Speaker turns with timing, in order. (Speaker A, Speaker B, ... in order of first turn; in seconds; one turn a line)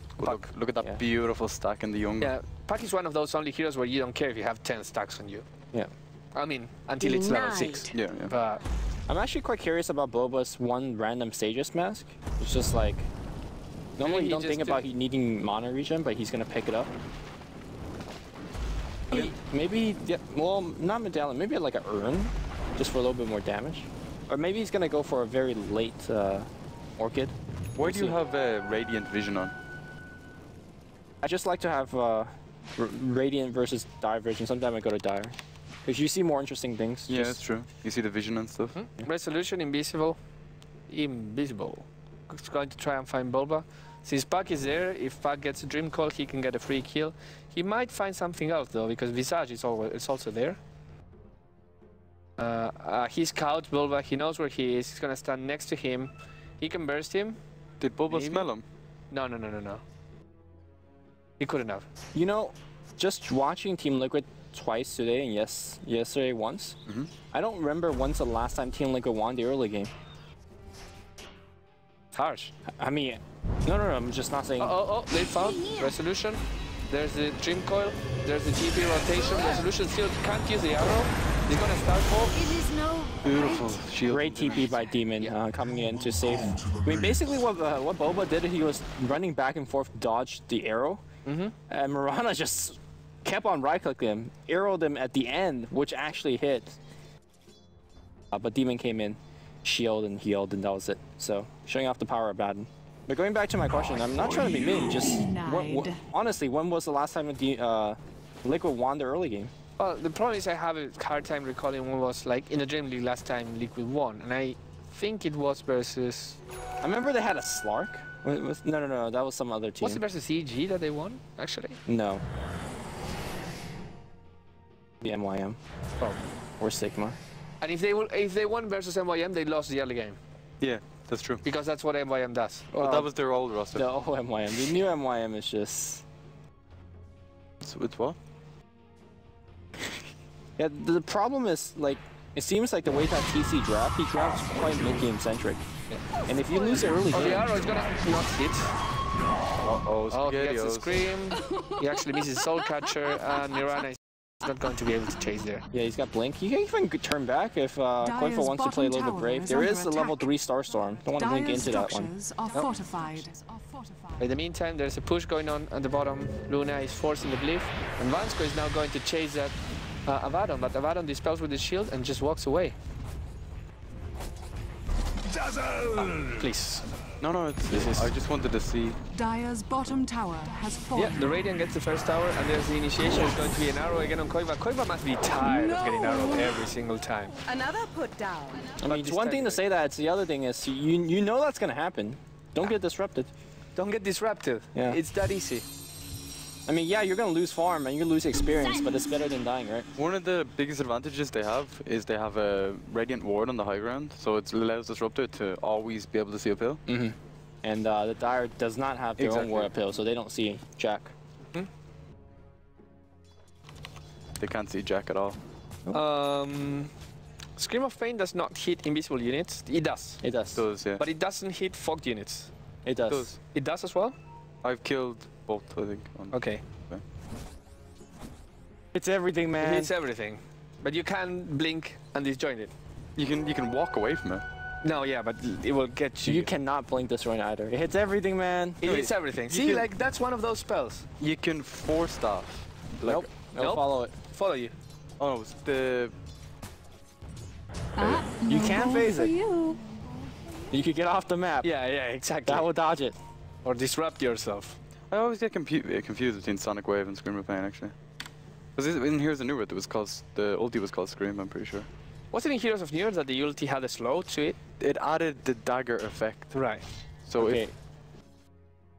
Speaker A: 0.2-2.3
Speaker B: 2.2-5.5
Speaker B: 6.3-8.6
Speaker C: 7.0-7.9
Speaker A: 7.9-8.3
Speaker D: 9.1-13.1
Speaker D: 14.0-16.9
Speaker B: 14.0-14.8
Speaker D: 19.1-28.2
Speaker A: 27.8-29.5
Speaker D: 31.2-37.4
Speaker A: 37.1-38.8
Speaker B: 38.7-40.2
Speaker B: 40.9-50.6
Speaker B: 52.4-57.4
Speaker A: 57.8-58.6
Speaker B: 58.1-58.5
Speaker B: 59.1-59.8
Speaker B: 61.4-61.9
Speaker D: 62.1-66.8
Speaker D: 67.3-69.9
Speaker B: 72.1-72.5
Speaker D: 72.8-74.8
Speaker B: 74.6-82.4
Speaker C: 82.4-83.4
Speaker A: 83.2-84.9
Speaker D: 84.1-91.0
Speaker B: 91.2-91.5
Speaker D: 91.7-96.8
Speaker D: 98.3-109.5
Speaker E: 105.2-105.9
Speaker B: 109.8-116.4
Speaker D: 116.8-120.0
Speaker B: 119.8-121.8
Speaker D: 121.8-122.2
Speaker D: 125.0-125.6
Speaker D: 126.6-127.2
Speaker B: 127.6-130.2
Speaker A: 130.6-131.4
Speaker B: 131.4-132.7
Speaker D: 132.7-133.1
Speaker A: 132.8-133.9
Speaker D: 133.7-136.0
Speaker A: 137.6-138.2
Speaker D: 140.6-145.7
Speaker D: 146.2-147.6
Speaker C: 146.5-147.0
Speaker B: 147.1-148.7
Speaker A: 149.6-151.0
Speaker B: 150.1-155.6
Speaker D: 155.7-162.1
Speaker E: 158.0-160.3
Speaker E: 161.2-164.2
Speaker B: 164.2-172.8
Speaker B: 175.7-176.9
Speaker A: 177.2-179.0
Speaker B: 177.7-178.1
Speaker E: 179.1-181.3
Speaker B: 180.9-187.3
Speaker E: 185.4-186.6
Speaker C: 187.4-188.8
Speaker D: 188.8-193.3
Speaker B: 188.8-189.7
Speaker B: 193.8-195.7
Speaker D: 196.7-199.9
Speaker A: 199.9-206.8
Speaker D: 206.9-211.1
Speaker A: 209.2-209.8
Speaker A: 214.4-215.4
Speaker B: 215.9-216.9
Speaker B: 217.6-220.2
Speaker D: 220.2-220.6
Speaker A: 220.5-221.0
Speaker B: 221.0-222.5
Speaker D: 222.8-223.3
Speaker A: 223.1-223.4
Speaker B: 223.5-224.2
Speaker A: 224.6-227.0
Speaker B: 226.3-226.6
Speaker D: 228.9-229.9
Speaker B: 229.6-232.7
Speaker A: 233.2-234.4
Speaker B: 234.8-236.5
Speaker D: 236.2-238.8
Speaker B: 238.8-241.1
Speaker A: 238.8-239.9
Speaker A: 241.2-243.3
Speaker D: 243.0-244.1
Speaker B: 243.6-244.7
Speaker A: 245.2-246.1
Speaker E: 248.0-249.8
Speaker D: 248.4-249.4
Speaker D: 250.7-251.7
Speaker B: 251.6-252.7
Speaker D: 252.4-253.2
Speaker B: 253.6-254.8
Speaker A: 255.1-257.9
Speaker A: 258.8-261.9
Speaker B: 262.3-264.6
Speaker A: 264.8-266.5
Speaker B: 266.5-266.8
Speaker A: 267.2-267.6
Speaker D: 267.4-267.7